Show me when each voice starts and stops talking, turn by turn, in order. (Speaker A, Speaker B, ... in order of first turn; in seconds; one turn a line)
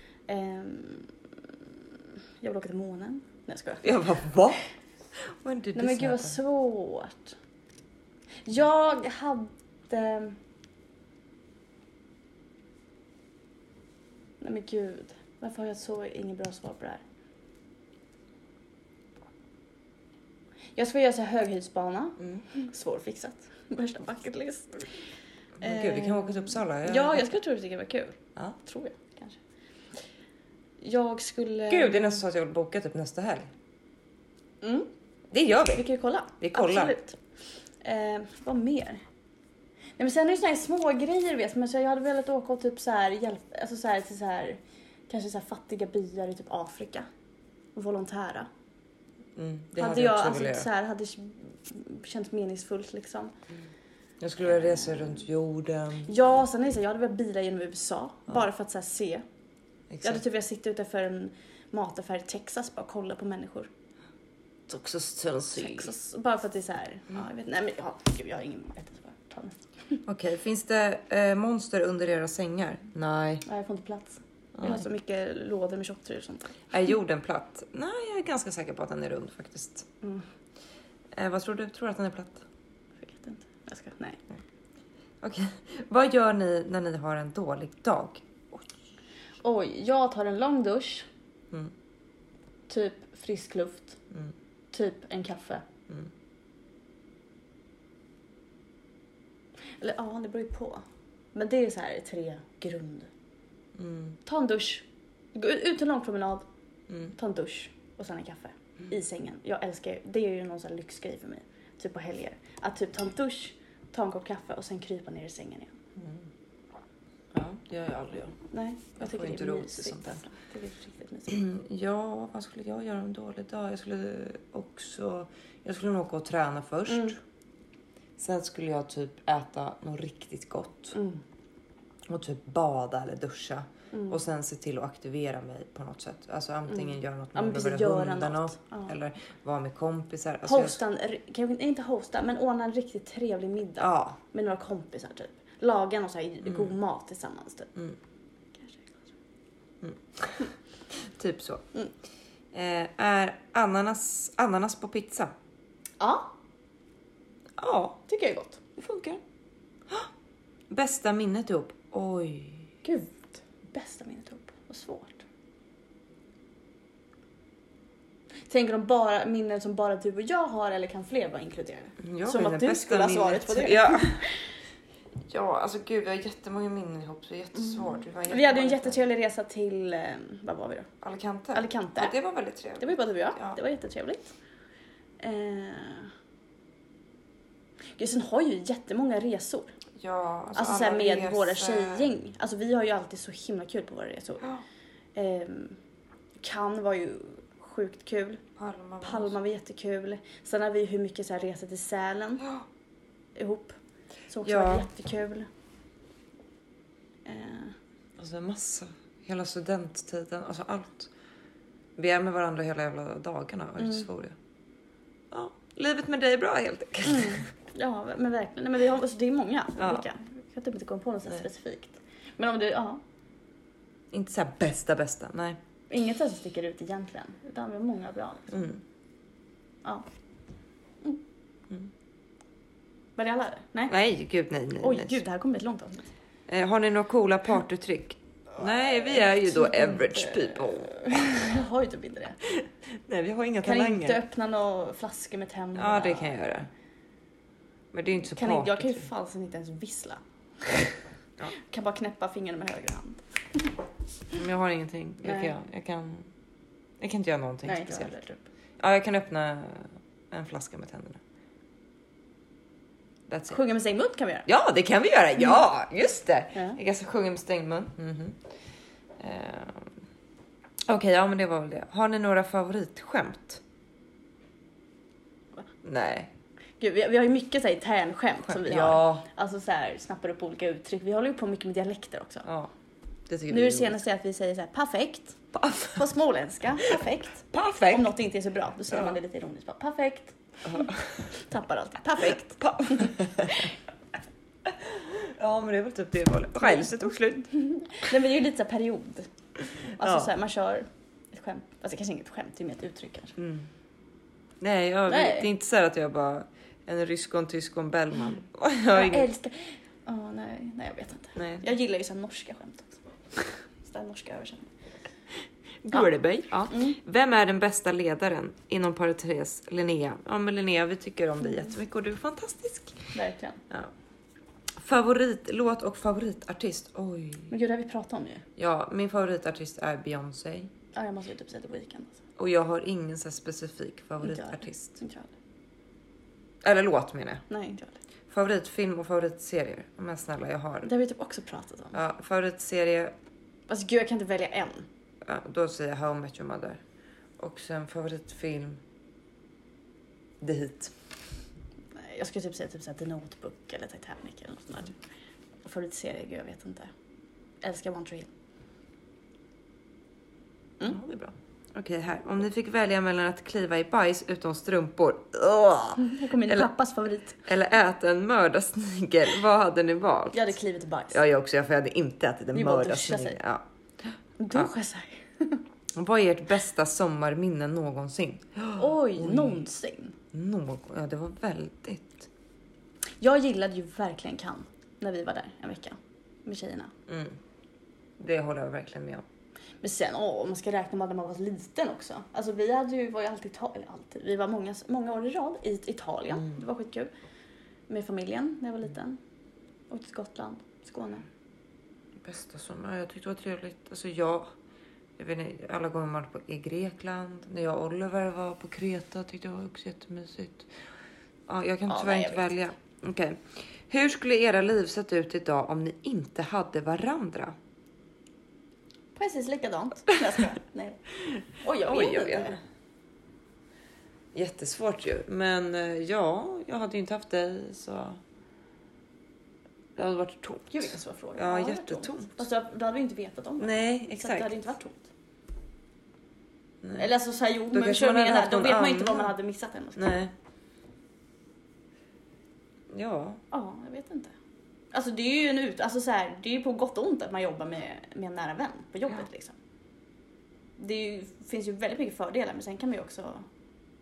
Speaker A: 0.3-1.1
Speaker A: 2.4-4.0
Speaker B: 3.8-4.6
Speaker B: 5.2-6.4
Speaker A: 5.8-7.4
Speaker A: 8.4-10.4
Speaker A: 14.4-17.0
Speaker A: 20.8-24.9
Speaker B: 25.6-27.3
Speaker A: 25.6-29.4
Speaker A: 30.8-32.2
Speaker B: 31.7-33.5
Speaker A: 34.6-34.9
Speaker B: 35.3-35.9
Speaker A: 35.8-37.2
Speaker B: 36.4-37.0
Speaker A: 37.8-39.0
Speaker A: 40.0-47.1
Speaker A: 47.8-48.5
Speaker B: 49.4-50.7
Speaker A: 49.8-53.3
Speaker B: 54.2-56.1
Speaker A: 54.4-55.2
Speaker A: 56.1-59.2
Speaker B: 59.9-60.2
Speaker A: 60.0-63.7
Speaker B: 64.7-65.9
Speaker A: 65.5-70.0
Speaker B: 70.1-73.4
Speaker A: 73.5-76.6
Speaker B: 74.5-74.8
Speaker B: 76.7-79.9
Speaker B: 81.1-82.4
Speaker A: 83.0-84.2
Speaker B: 85.2-88.7
Speaker A: 89.4-91.1
Speaker A: 92.7-94.0
Speaker A: 94.7-95.7
Speaker A: 99.8-103.1
Speaker B: 103.8-104.2
Speaker A: 104.2-106.5
Speaker A: 107.0-115.8
Speaker B: 116.0-116.3
Speaker B: 117.3-118.4
Speaker A: 118.5-121.4
Speaker B: 119.0-120.2
Speaker B: 121.3-127.2
Speaker A: 126.9-127.1
Speaker B: 128.2-130.9
Speaker A: 130.9-131.2
Speaker B: 132.1-140.8
Speaker A: 133.9-134.2
Speaker A: 136.7-138.9
Speaker A: 140.4-147.7
Speaker B: 143.8-144.2
Speaker B: 146.4-146.7
Speaker A: 148.6-149.1
Speaker B: 149.8-151.7
Speaker B: 152.5-155.3
Speaker A: 156.0-156.3
Speaker B: 157.6-158.0
Speaker A: 158.1-158.8
Speaker B: 158.8-159.2
Speaker B: 160.7-162.8
Speaker A: 162.8-165.2
Speaker A: 168.5-174.4
Speaker B: 172.0-174.3
Speaker B: 175.3-179.0
Speaker A: 177.6-180.9
Speaker B: 181.0-183.6
Speaker A: 181.5-182.2
Speaker A: 182.8-184.3
Speaker A: 185.2-186.1
Speaker A: 188.0-189.7
Speaker B: 190.0-192.1
Speaker A: 190.6-194.5
Speaker A: 195.2-195.8
Speaker A: 196.4-198.4
Speaker B: 198.6-199.4
Speaker A: 199.0-202.5
Speaker A: 203.3-203.8
Speaker A: 204.3-205.5
Speaker B: 204.4-204.9
Speaker A: 207.2-207.8
Speaker B: 208.2-211.1
Speaker B: 212.0-214.4
Speaker A: 213.8-214.1
Speaker B: 215.3-217.5
Speaker A: 217.1-223.0
Speaker B: 219.8-220.1
Speaker B: 224.1-225.6
Speaker A: 225.9-228.8
Speaker B: 228.5-228.8
Speaker A: 233.2-233.9
Speaker B: 233.9-235.2
Speaker A: 234.8-236.1
Speaker B: 236.5-241.5
Speaker A: 238.6-242.4
Speaker B: 242.5-244.2
Speaker A: 243.6-246.5
Speaker B: 245.8-246.7
Speaker B: 247.9-249.1
Speaker A: 248.3-250.9
Speaker A: 251.6-253.7
Speaker B: 254.3-256.3
Speaker A: 255.2-255.5
Speaker B: 257.0-258.2
Speaker A: 257.6-258.4
Speaker B: 258.8-261.2
Speaker B: 263.3-263.6
Speaker A: 263.5-264.5
Speaker B: 264.5-268.4
Speaker B: 269.2-269.9
Speaker B: 270.9-273.6
Speaker B: 275.8-276.3
Speaker A: 276.8-282.5
Speaker B: 278.5-279.2
Speaker B: 282.5-282.7
Speaker B: 283.3-284.0
Speaker A: 283.5-293.7
Speaker B: 285.5-286.0
Speaker B: 287.5-288.1
Speaker B: 288.9-289.2
Speaker B: 290.6-291.2
Speaker B: 292.6-293.7
Speaker B: 294.6-297.5
Speaker A: 296.6-296.9
Speaker A: 297.5-299.3
Speaker A: 299.9-303.4
Speaker B: 300.0-300.3
Speaker B: 303.4-303.7
Speaker B: 304.6-309.3
Speaker A: 305.1-305.5
Speaker A: 308.9-314.7
Speaker B: 311.4-311.7
Speaker B: 315.8-323.1
Speaker A: 316.7-317.0
Speaker A: 323.1-323.6
Speaker B: 324.8-327.5
Speaker A: 327.5-328.4
Speaker B: 328.6-330.7
Speaker A: 330.9-332.2
Speaker B: 332.4-335.0
Speaker A: 334.2-335.3
Speaker B: 336.6-337.4
Speaker A: 337.5-338.0
Speaker B: 338.3-340.9
Speaker A: 340.8-342.0
Speaker B: 341.9-343.1
Speaker A: 343.7-344.9
Speaker B: 345.2-346.8
Speaker B: 347.4-348.8
Speaker B: 350.4-350.9
Speaker A: 352.0-355.0
Speaker A: 355.6-356.9
Speaker A: 357.6-358.3
Speaker B: 360.8-366.7
Speaker A: 366.0-367.4
Speaker B: 367.4-370.6
Speaker A: 370.3-371.2
Speaker B: 371.1-374.7
Speaker A: 372.5-373.4
Speaker A: 374.4-375.6
Speaker B: 375.9-379.6
Speaker A: 378.8-380.2
Speaker B: 380.3-382.3
Speaker A: 383.2-386.9
Speaker B: 387.1-387.4
Speaker B: 388.2-389.2
Speaker A: 389.8-397.1
Speaker B: 396.3-396.6
Speaker A: 397.9-399.2
Speaker A: 399.9-401.3
Speaker B: 402.2-404.5
Speaker B: 405.2-410.7
Speaker B: 411.5-417.6
Speaker A: 411.9-412.5
Speaker A: 419.1-422.6
Speaker B: 421.8-422.6
Speaker B: 424.3-428.2
Speaker B: 430.0-432.4
Speaker A: 430.7-435.1
Speaker B: 433.6-434.6
Speaker B: 436.8-437.1
Speaker A: 436.9-440.2
Speaker B: 437.7-439.3
Speaker B: 440.0-440.3
Speaker B: 442.9-443.4
Speaker A: 443.5-444.3
Speaker A: 444.9-449.6
Speaker A: 450.8-453.5